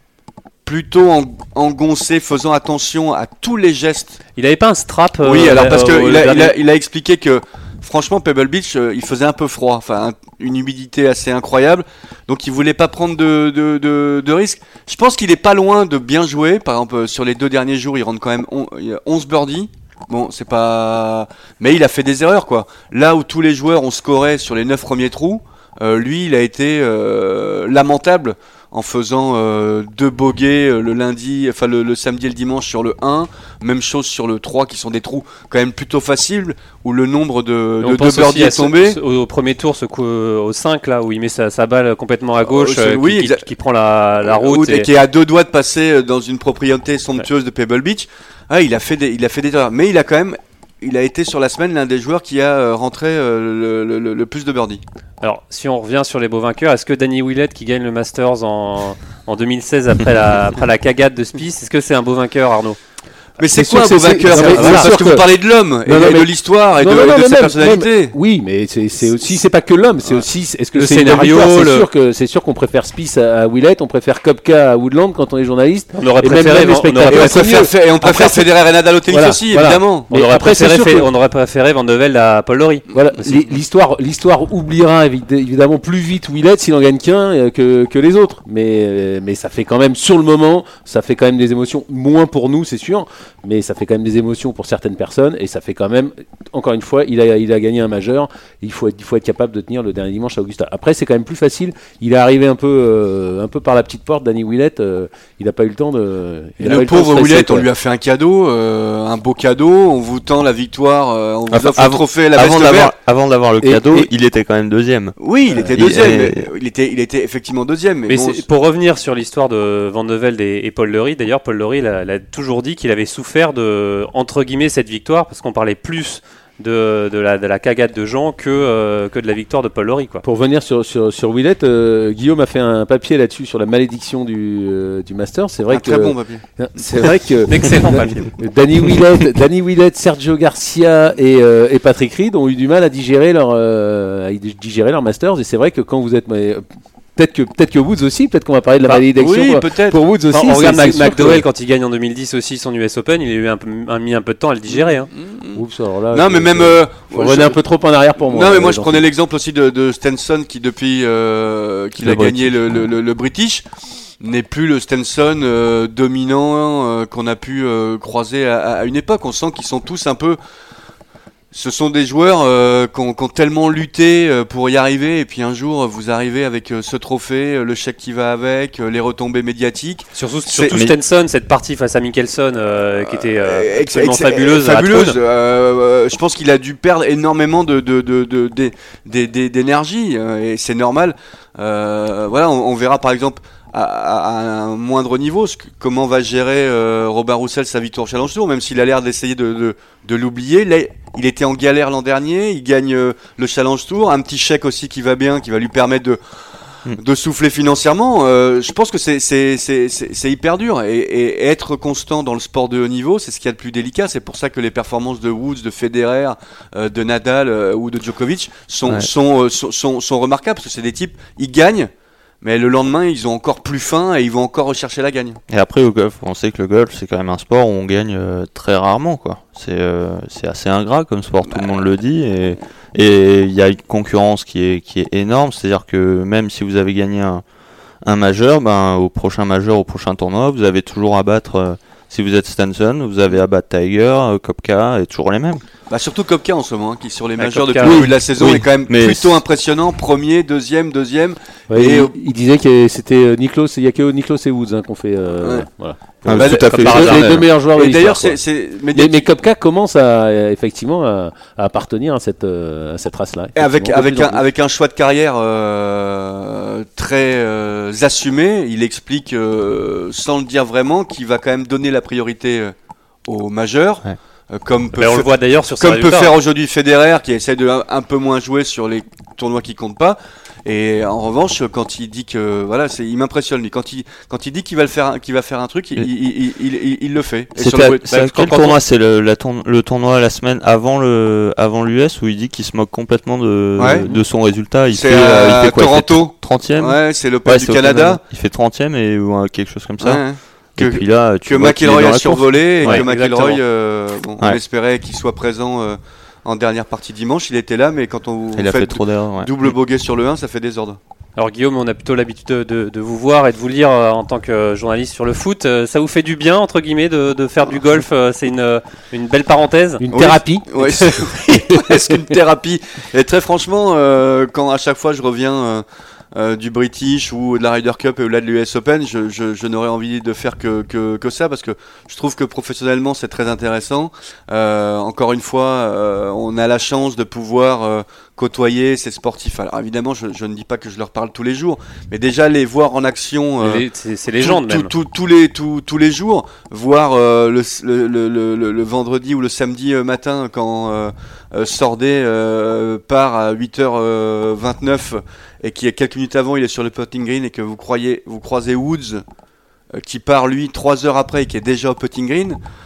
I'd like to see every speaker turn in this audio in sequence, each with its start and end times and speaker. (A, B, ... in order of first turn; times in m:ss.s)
0:00.6-0:04.2 A
0:04.4-0:06.5 B
0:05.2-0:39.0 A
0:37.8-0:44.9 B
0:42.4-0:43.4 A
0:44.2-0:54.8 A
0:55.2-1:02.8 B
1:03.4-1:08.2 A
1:03.5-1:05.2 C
1:04.3-1:04.9 B
1:05.8-1:18.5 C
1:10.7-1:11.9 B
1:16.0-1:17.4 B
1:17.1-1:20.1 A
1:19.1-1:21.1 C
1:20.1-1:23.4 B
1:22.9-1:47.7 C
1:46.6-1:52.9 A
1:51.5-1:55.2 D
1:53.6-1:54.1 C
1:55.2-1:58.4 A
1:55.7-1:56.5 D
1:58.1-2:10.2 B
2:10.2-2:26.6 C
2:15.7-2:16.4 A
2:17.5-2:18.4 B
2:27.2-2:31.4 C
2:29.1-2:30.0 A
2:30.3-2:35.1 B
2:34.7-2:37.6 A
2:35.5-2:39.0 C
2:38.2-2:43.6 A
2:42.0-2:42.8 C
2:44.2-2:50.4 A
2:51.5-3:00.8 A
3:00.1-3:05.2 B
3:03.1-3:26.2 A
3:26.9-3:41.9 A
3:42.4-3:45.4 A
3:45.5-3:57.4 D
3:51.5-3:51.8 A
3:58.0-4:05.6 D
4:05.9-4:12.1 A
4:07.4-4:08.1 B
4:07.8-4:09.4 D
4:11.7-4:18.4 C
4:15.4-4:15.7 A
4:16.2-4:17.4 D
4:16.3-4:19.3 A
4:16.4-4:17.3 B
4:18.9-4:24.4 C
4:23.5-4:32.7 A
4:33.2-4:48.0 A
4:34.9-4:36.3 B
4:47.5-5:00.2 D
4:48.1-4:48.8 B
4:53.8-4:54.1 A
4:54.9-4:58.2 A
5:00.0-5:11.0 A
5:00.8-5:03.1 D
5:02.8-5:03.6 B
5:08.6-5:09.5 D
5:11.4-5:20.0 B
5:20.0-5:22.2 C
5:20.1-5:43.8 A
5:43.6-5:44.9 B
5:44.4-5:59.2 A
6:00.0-6:02.6 A